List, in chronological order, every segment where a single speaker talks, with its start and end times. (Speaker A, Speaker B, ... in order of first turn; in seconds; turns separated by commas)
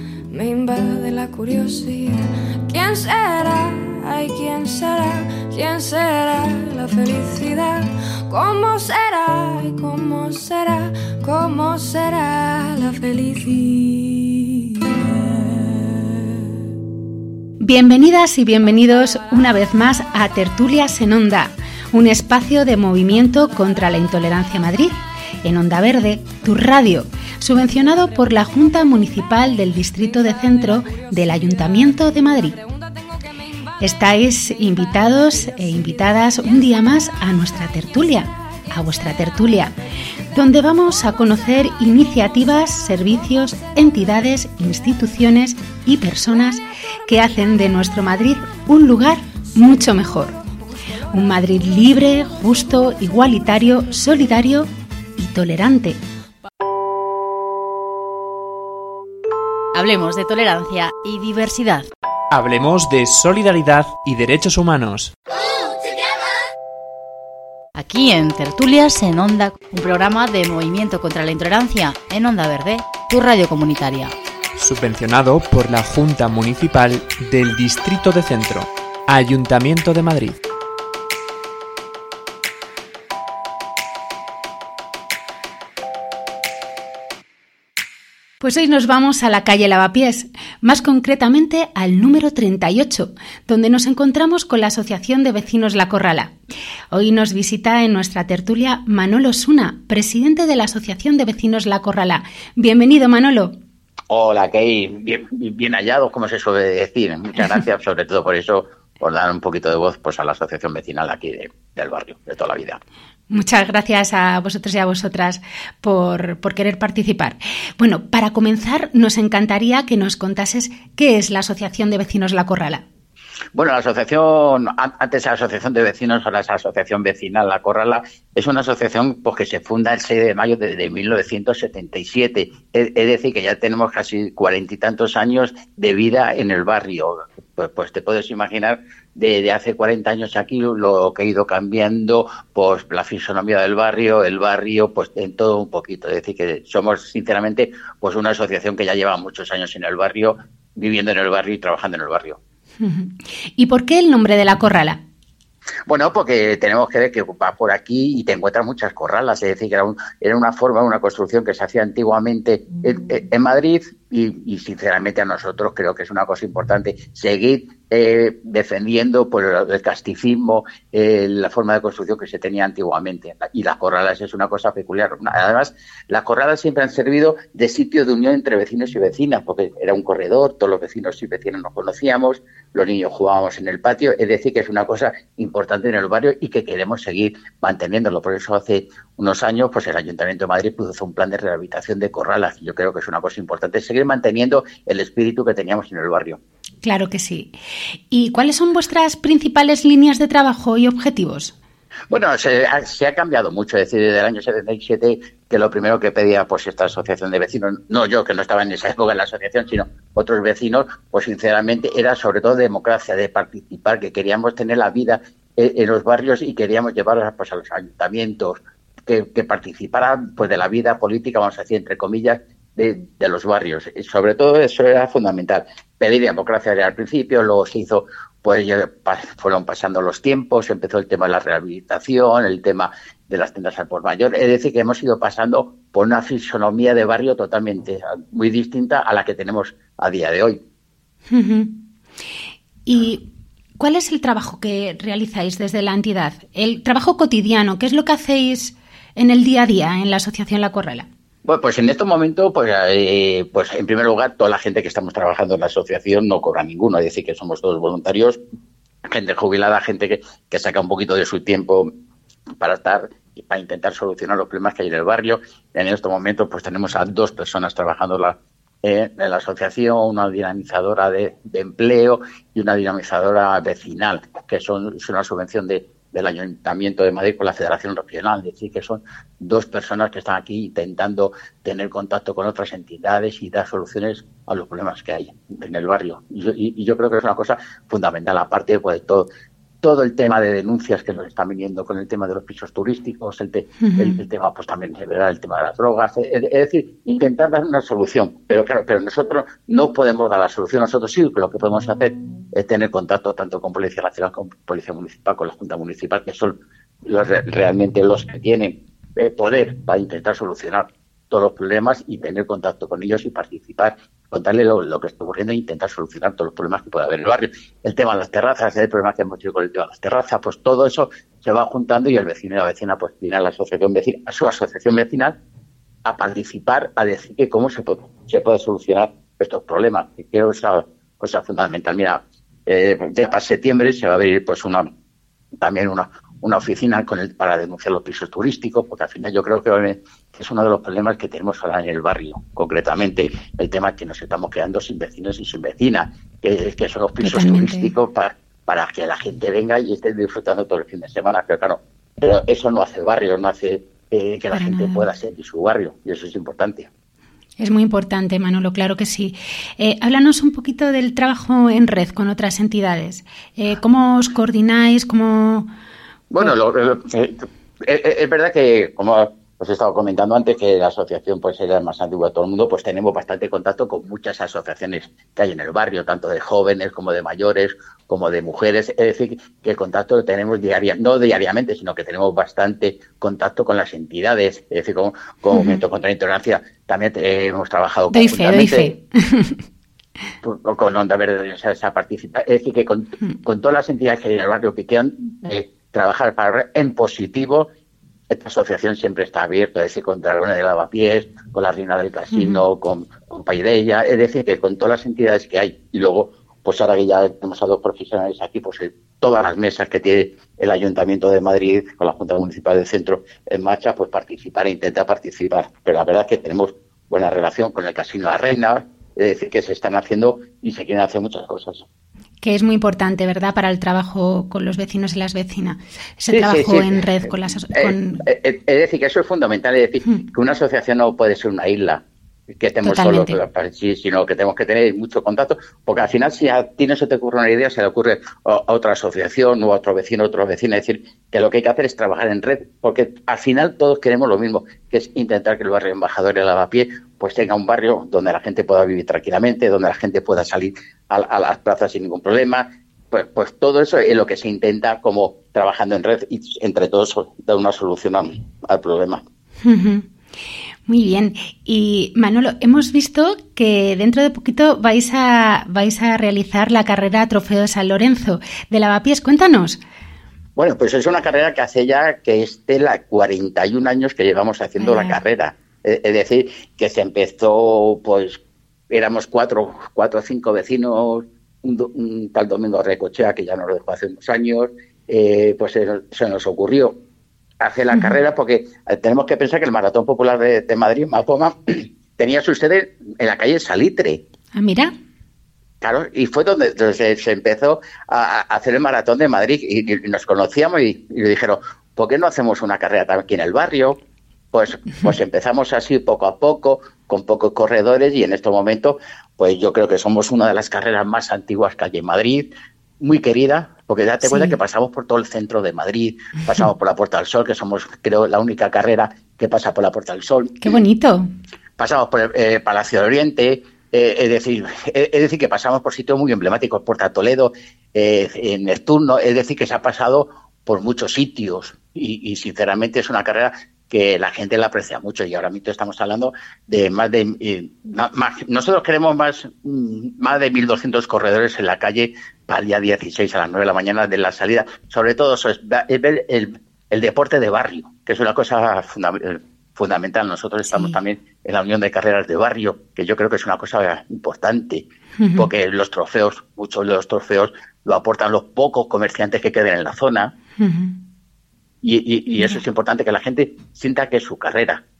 Speaker A: 0.3-16.3, Speaker B: 17.6-32.6, Speaker A: 32.6-33.2, Speaker B: 33.8-39.7, Speaker B: 40.3-50.4, Speaker B: 51.1-56.0, Speaker C: 59.7-61.9, Speaker D: 62.3-65.1, Speaker C: 67.8-74.1, Speaker D: 74.6-80.4, Speaker B: 88.4-96.4, Speaker B: 96.9-103.6, Speaker E: 104.1-112.8, Speaker B: 113.3-122.8, Speaker E: 123.5-152.4, Speaker B: 152.8-155.0, Speaker E: 155.9-196.4, Speaker B: 196.8-197.5, Speaker B: 198.1-201.6, Speaker E: 202.1-240.6, Speaker B: 241.3-241.7, Speaker B: 242.9-243.2, Speaker B: 243.8-251.1, Speaker E: 251.4-258.4, Speaker E: 259.1-261.9, Speaker E: 262.6-289.3, Speaker E: 289.8-325.4, Speaker B: 293.8-294.2, Speaker E: 326.1-334.9, Speaker E: 335.6-356.9, Speaker B: 347.2-347.9, Speaker B: 354.5-355.1, Speaker B: 357.6-365.7, Speaker E: 366.3-389.0, Speaker B: 385.5-385.8, Speaker B: 388.1-389.6, Speaker E: 390.4-397.7, Speaker E: 398.3-421.9, Speaker B: 402.3-402.6, Speaker B: 422.4-428.2, Speaker E: 426.3-459.2, Speaker B: 432.8-433.4, Speaker B: 459.6-460.1, Speaker B: 460.9-469.8, Speaker E: 470.6-487.0, Speaker B: 474.8-475.2, Speaker E: 487.6-494.2, Speaker B: 494.6-494.9, Speaker E: 495.8-504.0, Speaker E: 504.5-512.5, Speaker E: 513.0-520.8, Speaker B: 514.2-514.6, Speaker B: 520.6-521.3, Speaker E: 521.8-560.3, Speaker B: 550.7-551.0, Speaker B: 555.2-555.5, Speaker B: 560.6-561.0, Speaker E: 561.8-564.8, Speaker B: 562.4-562.6